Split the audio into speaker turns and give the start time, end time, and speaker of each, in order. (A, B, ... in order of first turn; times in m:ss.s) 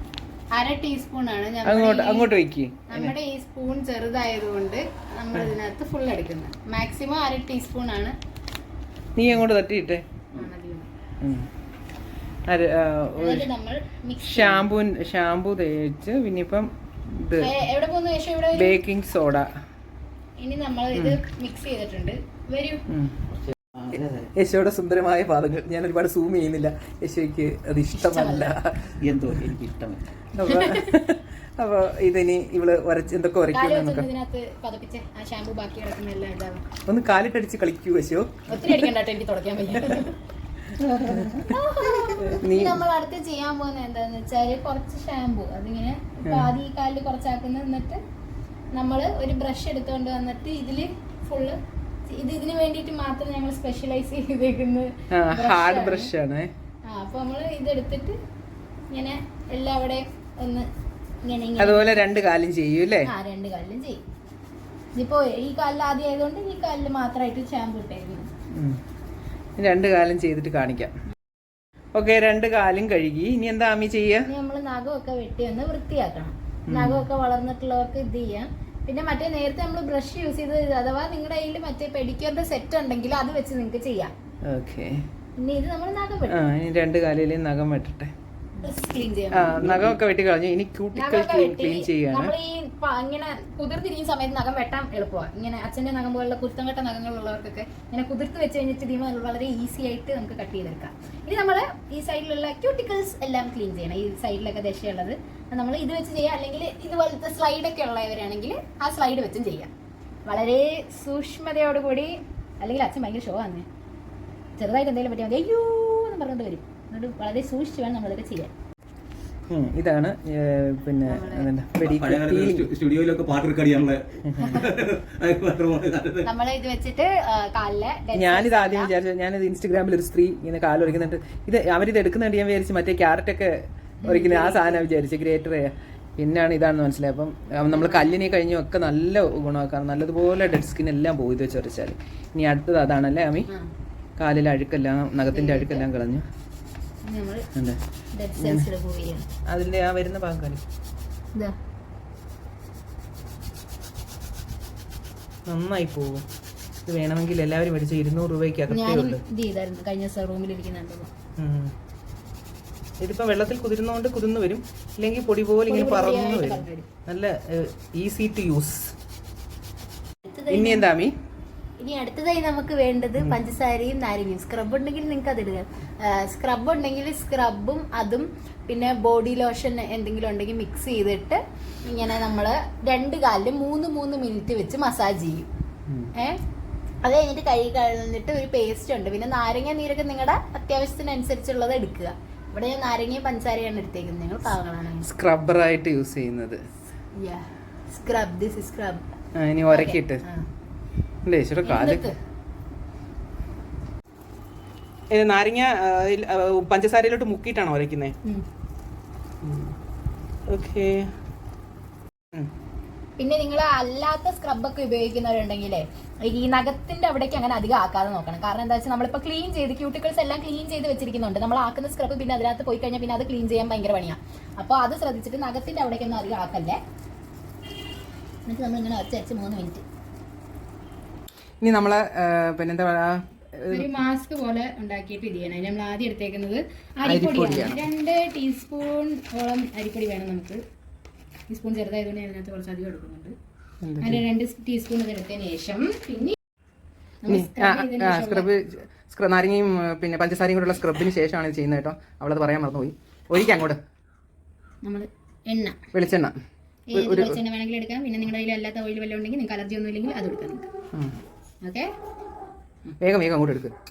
0:00.6-0:02.3 A
0:01.6-0:03.1 B
0:02.9-0:08.2 A
0:09.2-0:10.3 B
0:10.4-0:10.9 A
0:11.2-0:11.5 B
0:12.5-0:13.5 B
0:13.2-0:14.7 A
0:14.2-0:17.5 B
0:17.4-0:18.8 A
0:18.6-0:19.5 B
0:20.4-0:22.8 A
0:21.0-0:21.2 B
0:22.9-0:23.2 B
0:23.8-0:24.3 C
0:24.4-0:29.4 B
0:27.9-0:28.6 A
0:29.0-0:30.1 C
0:30.4-0:34.1 B
0:30.4-0:30.9 A
0:33.5-0:36.6 A
0:36.9-0:38.9 B
0:38.5-0:40.2 A
0:39.8-0:40.1 B
0:40.7-0:41.5 B
0:41.1-0:48.0 A
0:42.2-0:42.8 B
0:46.2-0:46.5 B
0:48.7-0:51.6 A
0:52.1-0:56.1 A
0:55.1-0:56.5 B
0:56.9-0:58.2 A
0:58.9-1:00.7 A
1:01.2-1:02.0 A
1:01.6-1:03.1 B
1:03.1-1:04.0 A
1:05.0-1:08.3 A
1:08.5-1:08.8 B
1:09.6-1:10.9 B
1:11.9-1:14.3 B
1:14.3-1:24.1 A
1:16.7-1:17.0 B
1:24.5-1:25.0 B
1:25.4-1:26.4 A
1:26.3-1:28.1 B
1:28.6-1:30.0 A
1:29.3-1:32.3 B
1:31.0-1:49.7 A
1:50.3-1:53.7 A
1:54.6-1:58.5 A
1:59.5-2:02.7 B
2:01.1-2:01.5 A
2:01.8-2:06.3 C
2:04.2-2:04.6 B
2:04.4-2:04.7 A
2:06.2-2:08.9 A
2:08.1-2:23.5 B
2:14.0-2:14.8 A
2:17.7-2:18.1 A
2:24.2-2:26.2 B
2:25.3-2:25.9 A
2:27.0-2:27.5 A
2:28.1-2:29.2 A
2:28.4-2:28.7 B
2:29.5-2:30.6 B
2:35.5-2:36.3 B
2:36.9-2:39.2 B
2:38.7-2:41.1 A
2:41.4-2:41.7 B
2:43.0-2:48.9 B
2:45.6-2:46.9 A
2:50.2-2:50.9 A
2:50.5-2:51.1 B
2:51.8-3:05.5 A
3:07.0-3:15.1 A
3:15.0-3:16.6 B
3:17.2-3:19.0 A
3:19.4-3:20.2 B
3:19.7-3:20.5 A
3:21.3-3:22.0 B
3:21.6-3:22.1 A
3:25.1-3:28.1 B
3:29.4-3:29.7 B
3:30.5-3:31.1 B
3:33.2-3:46.8 A
3:48.5-3:49.8 A
3:51.6-3:54.0 B
3:53.7-4:00.6 A
3:57.1-3:57.9 B
4:01.5-4:03.4 A
4:03.8-4:04.2 B
4:04.0-4:06.4 A
4:07.2-4:08.5 A
4:07.3-4:13.8 B
4:14.8-4:15.8 A
4:15.9-4:16.4 B
4:16.9-4:20.7 A
4:16.9-4:17.4 B
4:21.6-4:21.9 A
4:23.0-4:23.7 B